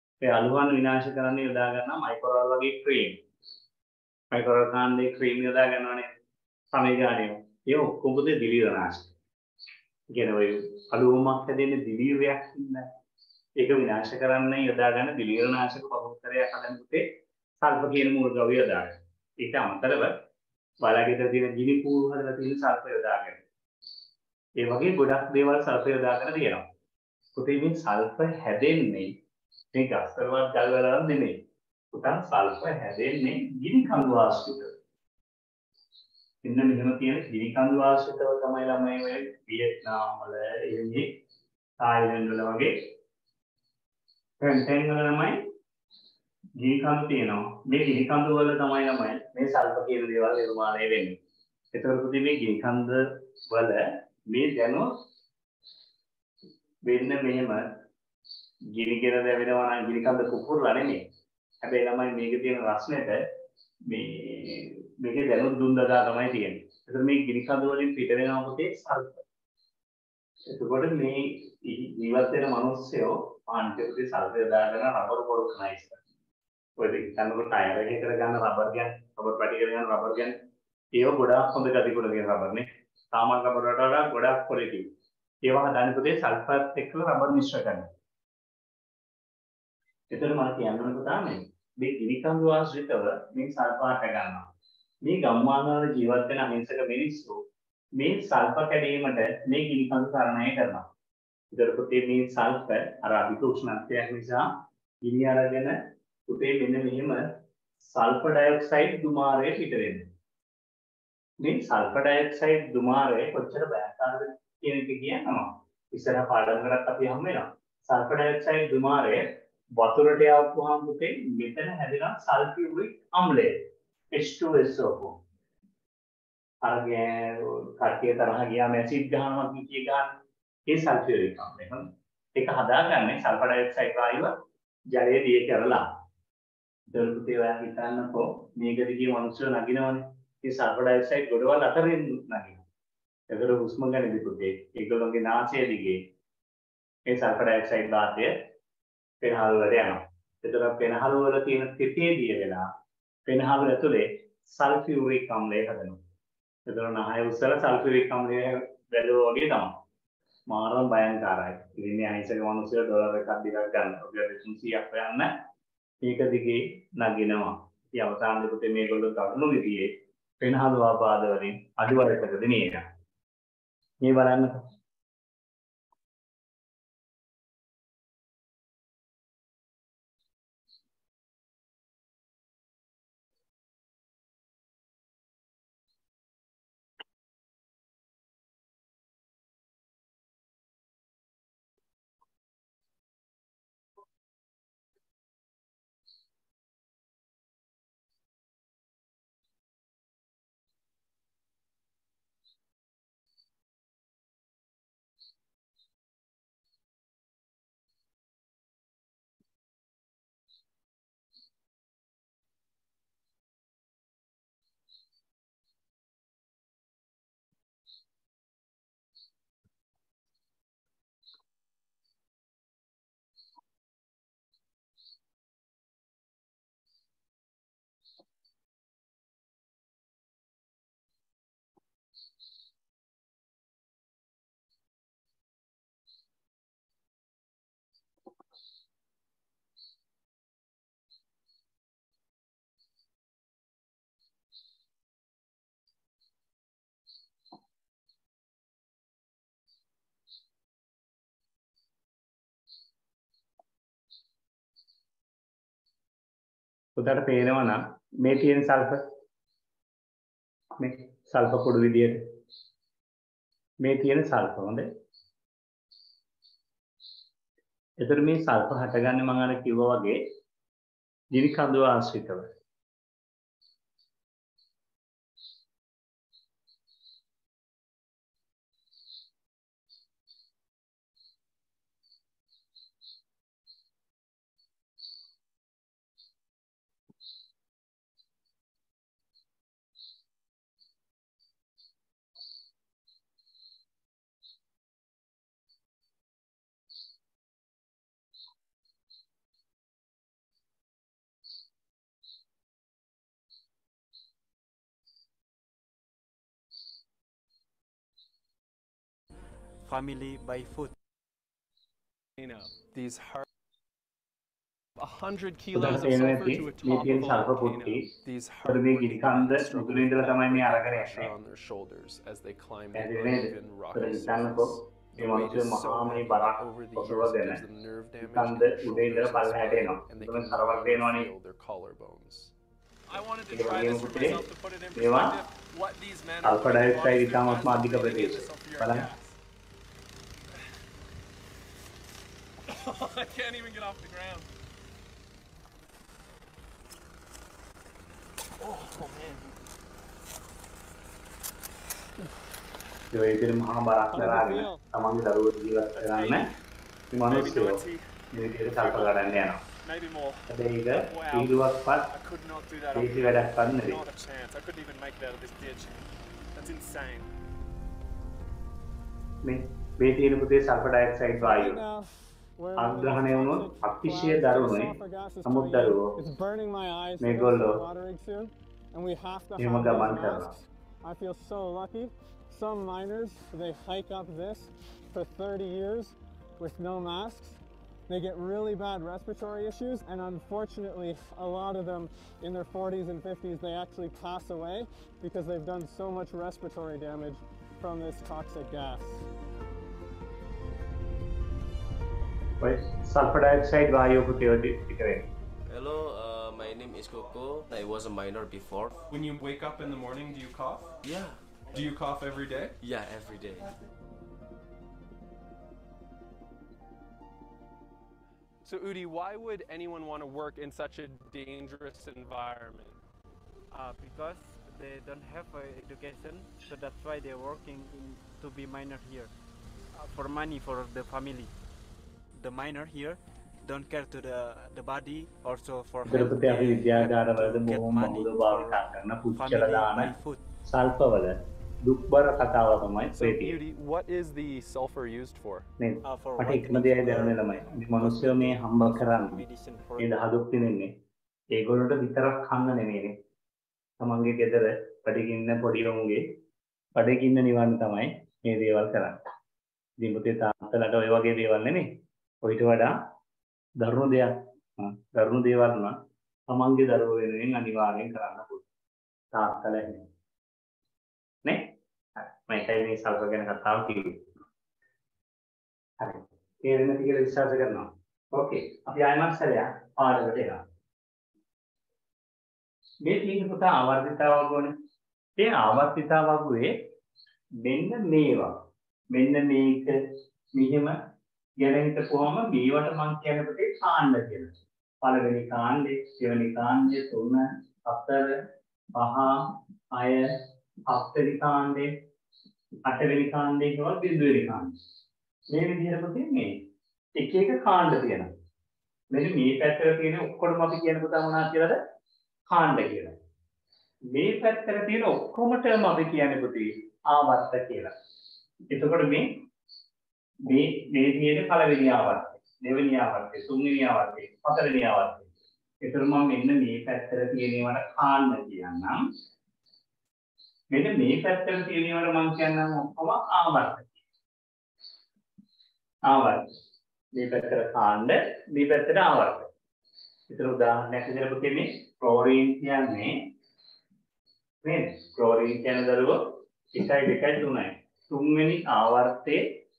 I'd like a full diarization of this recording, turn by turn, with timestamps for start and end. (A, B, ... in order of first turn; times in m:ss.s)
0:00.2-0:03.2 A
0:04.3-0:06.1 A
0:06.7-0:09.1 A
0:10.1-0:12.9 A
0:13.6-0:17.0 A
0:17.6-0:20.1 A
0:20.8-0:23.4 A
0:24.6-0:26.6 A
0:27.4-0:29.1 A
0:29.7-0:31.4 A
0:31.9-0:34.7 A
0:36.4-0:41.1 A
0:41.8-0:42.7 A
0:44.4-0:45.4 A
0:46.6-0:51.2 A
0:51.7-0:54.9 A
0:56.8-0:57.6 A
0:58.7-1:01.0 A
1:01.6-1:03.2 A
1:03.9-1:09.2 A
1:10.5-1:16.0 A
1:16.8-1:20.3 A
1:20.9-1:24.9 A
1:25.4-1:27.9 A
1:30.1-1:34.5 A
1:35.0-1:37.4 A
1:38.0-1:40.9 A
1:41.5-1:44.5 A
1:45.0-1:45.8 A
1:46.3-1:47.2 A
1:47.9-1:50.1 A
1:51.4-2:03.6 A
2:04.1-2:05.2 A
2:06.6-2:10.1 A
2:10.7-2:14.3 A
2:14.9-2:15.8 A
2:16.9-2:22.6 A
2:23.3-2:26.0 A
2:27.1-2:28.3 A
2:29.2-2:32.6 A
2:33.3-2:36.0 A
2:36.7-2:39.7 A
2:40.5-2:45.3 A
2:46.0-2:49.9 A
2:50.4-2:52.8 A
2:54.0-2:54.6 A
4:17.0-4:19.0 A
4:20.8-4:22.2 A
4:23.8-4:24.9 A
4:28.0-4:30.2 A
4:31.3-4:32.5 A
5:09.8-5:10.9 B
5:12.4-5:13.4 C
5:15.0-5:32.5 C
5:15.7-5:18.1 A
5:18.6-5:21.3 A
5:22.9-5:27.6 A
5:28.2-5:31.3 A
5:33.1-5:38.6 C
5:33.1-5:35.2 D
5:33.5-5:34.4 A
5:35.0-5:35.4 A
5:36.4-5:39.1 A
5:37.7-5:39.2 D
5:42.7-5:43.9 C
5:43.9-5:44.4 D
5:48.6-5:49.4 D
5:53.1-5:56.5 A
5:54.1-5:54.8 E
5:56.0-5:56.4 D
5:57.1-5:59.6 A
5:57.3-5:58.0 D
5:58.7-5:59.2 D
5:59.8-6:06.0 D
6:00.5-6:02.1 A
6:02.9-6:04.0 A
6:06.5-6:07.3 D
6:09.4-6:11.8 A
6:11.4-6:39.2 E
6:12.8-6:16.1 A
6:17.2-6:17.8 A
6:19.6-6:20.5 A
6:42.6-6:45.3 A
6:45.7-6:49.0 F
6:49.1-6:51.0 C
6:51.0-6:51.4 F
6:51.7-6:52.8 C
6:52.8-6:53.7 F
6:58.6-7:03.0 C
7:03.7-7:09.3 B
7:09.9-7:11.5 B
7:12.3-7:20.4 B
7:16.0-7:20.1 A
7:20.6-7:23.6 A
7:23.2-7:25.7 C
7:25.8-7:29.4 A
7:26.0-7:30.1 B
7:30.0-7:30.9 A
7:31.5-7:33.2 A
7:34.0-7:36.3 A
7:37.0-7:39.2 A
7:40.0-7:41.9 A
7:42.4-7:43.0 A
7:43.8-7:46.0 A
7:46.5-7:48.6 A
7:49.3-7:50.1 A
7:51.4-7:54.3 A
7:56.0-8:00.6 A
8:03.0-8:04.8 A
8:05.4-8:06.7 A
8:07.6-8:08.5 A
8:09.1-8:09.9 A
8:10.5-8:11.0 A
8:11.6-8:18.4 A
8:18.9-8:21.9 A
8:22.8-8:24.8 A
8:25.5-8:26.6 A
8:27.2-8:28.3 A
8:29.1-8:31.8 A
8:32.5-8:33.1 A
8:34.1-8:37.9 A
8:38.7-8:39.4 A
8:40.4-8:45.3 A
8:45.8-8:49.0 A
8:50.7-8:54.0 A
8:56.0-8:56.5 A
8:57.1-8:59.5 A
9:00.3-9:03.2 A
9:04.6-9:06.2 A
9:06.7-9:09.4 A